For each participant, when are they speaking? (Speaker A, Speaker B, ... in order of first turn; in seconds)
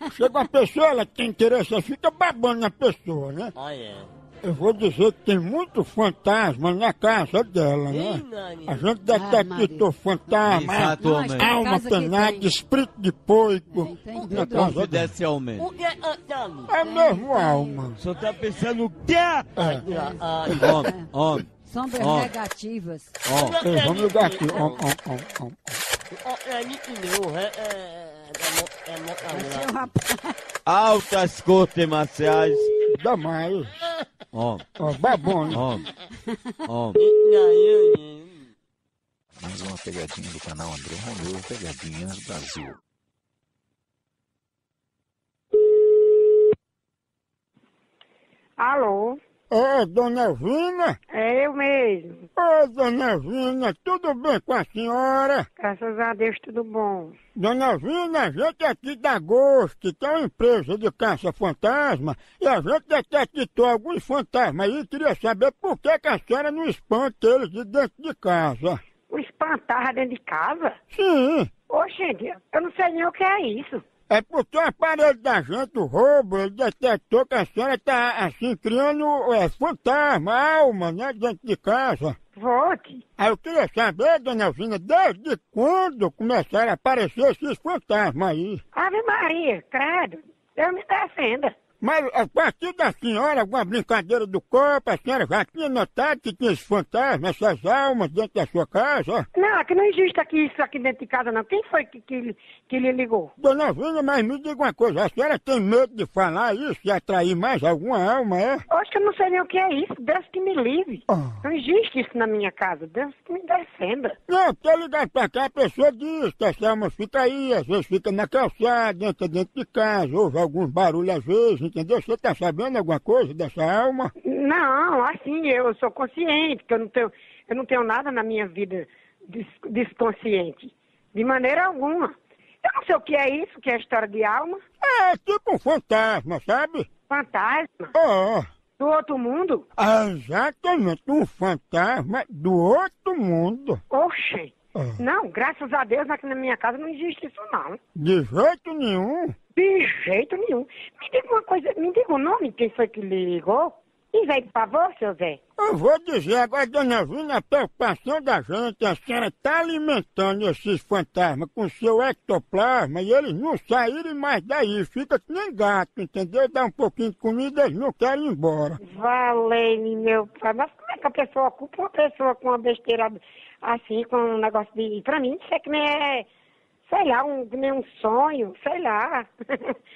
Speaker A: 0.1-3.5, 4.4-15.1, 16.7-18.0, 19.6-19.8, 23.6-25.8, 32.9-33.7, 34.8-35.7, 49.5-51.0, 52.4-55.5, 57.4-68.8, 70.9-71.5, 74.1-82.2, 83.2-88.6, 91.8-99.3, 103.4-108.6, 111.1-111.4, 114.3-124.1, 134.8-136.9, 137.9-138.5, 139.8-143.8, 144.7-145.0, 147.9-149.3, 155.6-168.8
Speaker B: 3.5-4.1, 7.9-8.9, 15.6-16.7, 19.6-20.7, 23.3-24.6, 26.2-29.7, 37.0-38.5
Speaker C: 9.0-9.9, 11.0-12.5, 13.7-14.8, 16.7-17.9, 19.9-23.2, 29.3-30.4
Speaker D: 10.4-11.5, 14.3-15.7, 18.0-19.5, 20.5-22.3, 23.2-23.6, 30.6-32.7, 34.3-34.6, 35.5-35.8, 36.7-37.0
Speaker E: 39.4-42.8
Speaker F: 48.6-49.2, 51.1-52.3, 55.6-57.1, 69.1-70.8, 71.7-73.8, 82.3-83.0, 88.7-91.5, 99.3-103.3, 108.7-114.2, 124.2-134.6, 137.1-137.9, 138.8-139.6, 143.9-147.8, 149.5-155.4, 168.8-176.3, 176.9-179.7